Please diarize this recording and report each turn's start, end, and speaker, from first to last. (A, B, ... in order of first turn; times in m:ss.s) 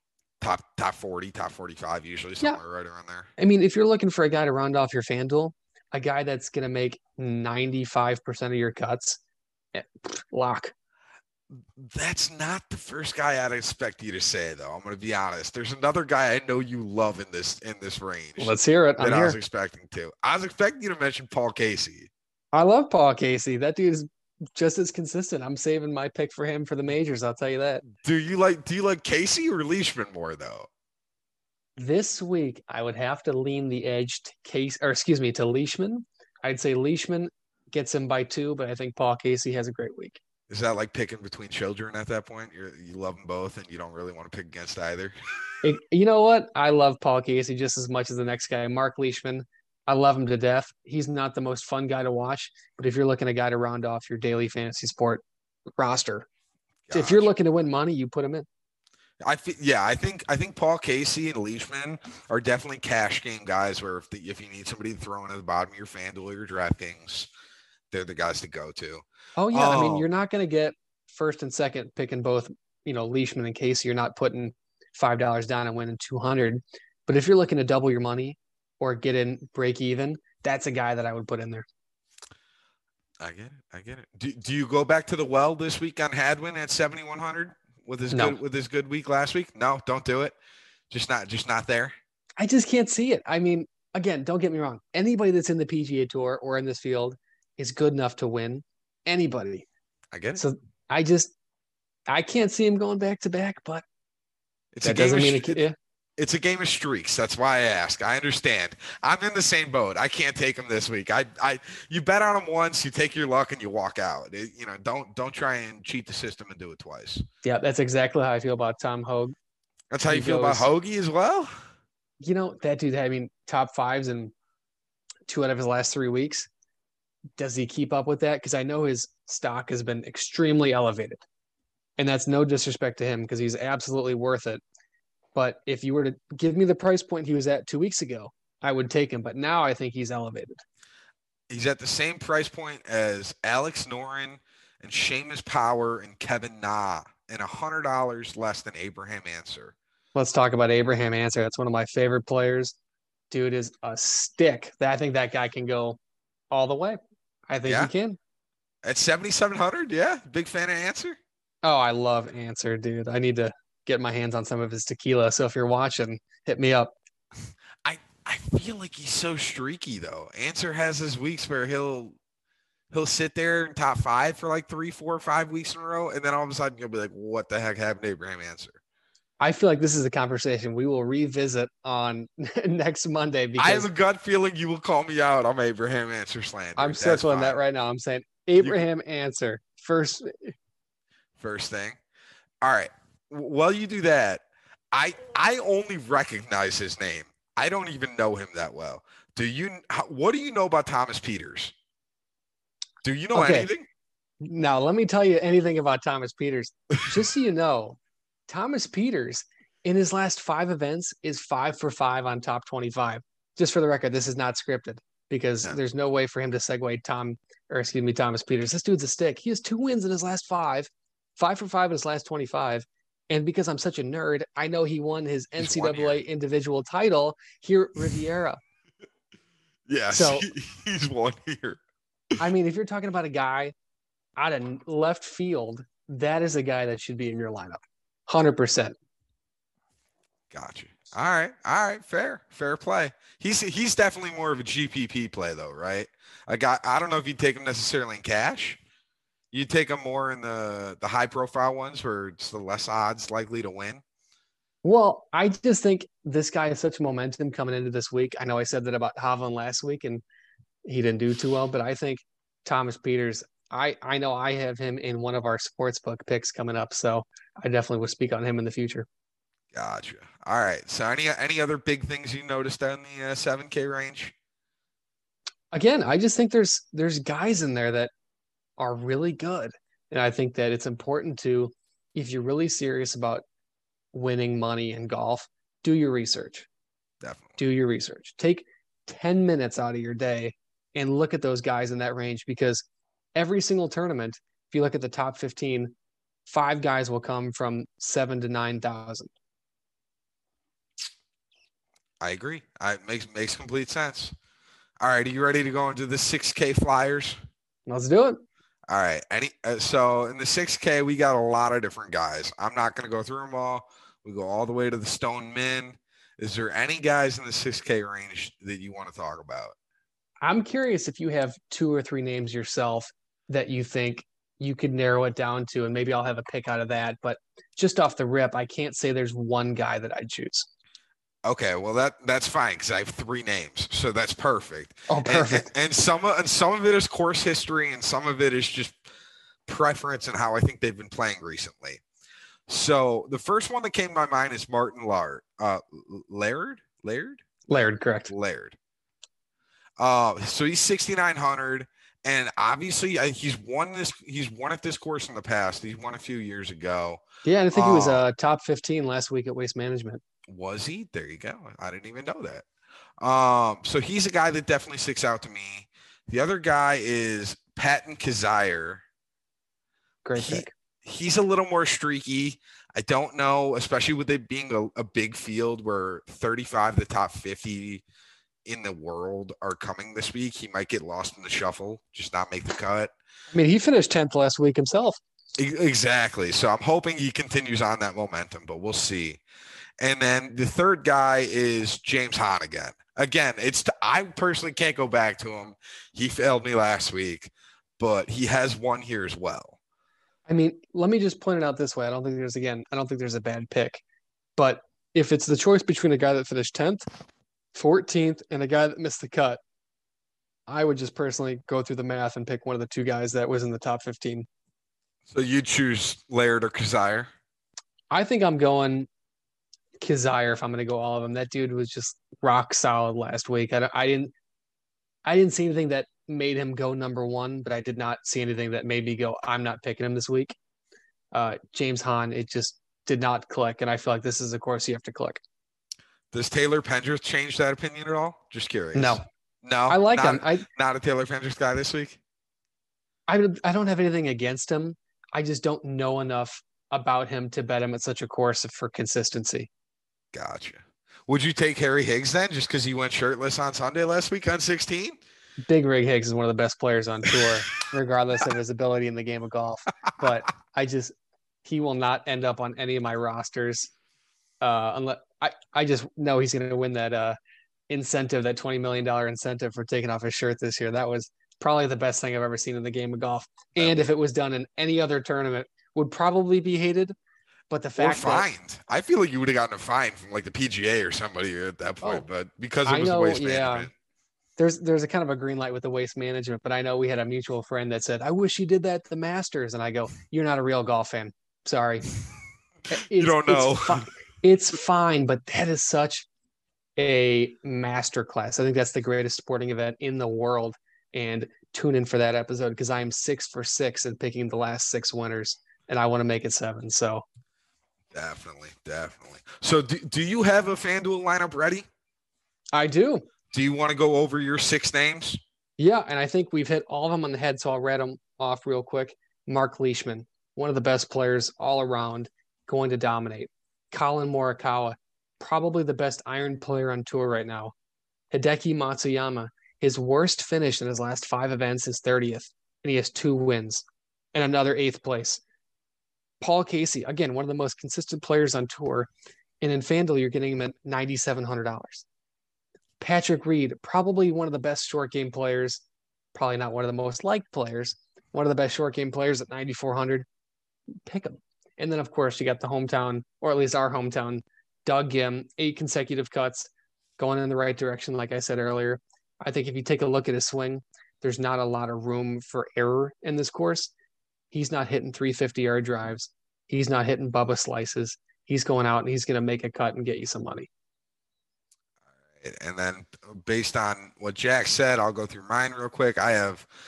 0:00.4-0:03.3 A
0:03.4-0:09.2 B
0:09.7-0:10.7 B
0:11.5-0:22.1 A
0:18.4-0:19.4 B
0:22.5-0:27.8 B
0:28.0-0:30.7 A
0:31.8-0:40.2 B
0:40.5-0:45.1 A
0:45.6-0:55.2 B
0:55.7-0:56.3 B
0:56.9-0:57.3 A
0:56.9-0:58.5 B
0:59.2-1:07.3 A
1:07.9-1:10.1 A
1:09.4-1:21.6 B
1:23.2-1:30.4 A
1:30.9-1:32.0 A
1:32.4-1:39.6 B
1:40.1-1:40.4 A
1:40.4-1:41.3 B
1:42.1-1:43.8 B
1:44.8-1:45.6 A
1:44.8-1:45.8 B
1:46.2-1:57.2 A
1:57.4-1:59.4 B
1:59.9-2:01.7 A
2:00.1-2:00.7 B
2:02.2-2:04.3 B
2:05.3-2:06.5 B
2:07.4-2:11.2 B
2:12.0-2:14.6 B
2:15.4-2:20.6 B
2:21.5-2:29.8 A
2:30.1-2:32.8 B
2:33.3-2:36.0 B
2:36.5-2:38.2 B
2:37.6-2:37.9 A
2:38.8-2:41.2 A
2:41.6-2:47.0 B
2:47.8-2:52.2 A
2:52.9-2:58.8 A
2:59.4-3:03.9 B
3:03.6-3:07.6 A
3:06.8-3:10.6 B
3:11.4-3:12.0 A
3:12.6-3:21.7 A
3:23.0-3:23.9 A
3:23.3-3:23.7 B
3:24.4-3:48.6 B
3:45.6-3:46.2 A
3:49.9-3:51.8 A
3:50.1-3:50.5 B
3:52.4-3:53.7 B
3:54.4-3:59.0 B
4:00.5-4:08.8 A
4:09.5-4:14.0 A
4:14.8-4:20.2 B
4:20.8-4:29.1 B
4:29.7-4:34.3 A
4:35.7-4:38.1 B
4:38.8-4:43.4 B
4:44.1-4:46.7 B
4:47.2-4:47.6 A
4:47.6-4:52.8 B
4:53.4-4:55.9 B
4:56.5-4:59.3 B
5:02.2-5:04.4 A
5:05.0-5:07.4 A
5:07.9-5:08.4 B
5:08.9-5:19.8 A
5:20.4-5:30.7 B
5:31.4-5:39.0 A
5:35.1-5:35.7 B
5:39.7-5:42.0 A
5:42.7-5:47.4 A
5:47.7-5:48.3 B
5:48.3-5:48.8 A
5:50.0-5:57.2 A
5:57.4-6:00.2 B
5:57.7-5:58.2 A
6:00.5-6:02.6 A
6:03.2-6:09.0 A
6:10.2-6:10.7 B
6:10.4-6:18.0 A
6:18.6-6:23.1 A
6:23.5-6:25.2 B
6:25.6-6:29.4 A
6:30.0-6:39.8 A
6:40.5-6:44.0 B
6:44.6-6:47.0 B
6:47.7-6:49.6 B
6:50.7-6:54.5 B
6:55.3-6:57.3 A
6:58.1-6:59.1 B
7:00.0-7:04.3 B
7:05.2-7:10.6 B
7:11.3-7:15.4 B
7:16.3-7:22.2 A
7:18.9-7:19.2 B
7:19.9-7:20.6 B
7:23.3-7:29.7 B
7:30.3-7:35.2 A
7:35.6-7:43.9 B
7:44.6-7:47.4 B
7:47.9-7:57.1 B
7:53.8-7:54.0 A
7:57.7-7:58.5 B
7:58.0-8:03.9 A
8:02.9-8:03.9 B
8:04.6-8:12.1 B
8:12.9-8:16.3 B
8:13.2-8:14.1 A
8:17.0-8:27.2 B
8:28.1-8:31.9 A
8:32.7-8:33.3 B
8:33.5-8:35.4 A
8:35.8-8:47.7 B
8:48.3-8:53.8 B
8:54.3-8:55.4 B
8:56.4-8:59.1 B
8:59.6-9:02.0 B
9:03.0-9:05.8 B
9:06.3-9:10.3 B
9:11.0-9:23.9 B
9:24.5-9:30.7 B
9:32.4-9:36.6 A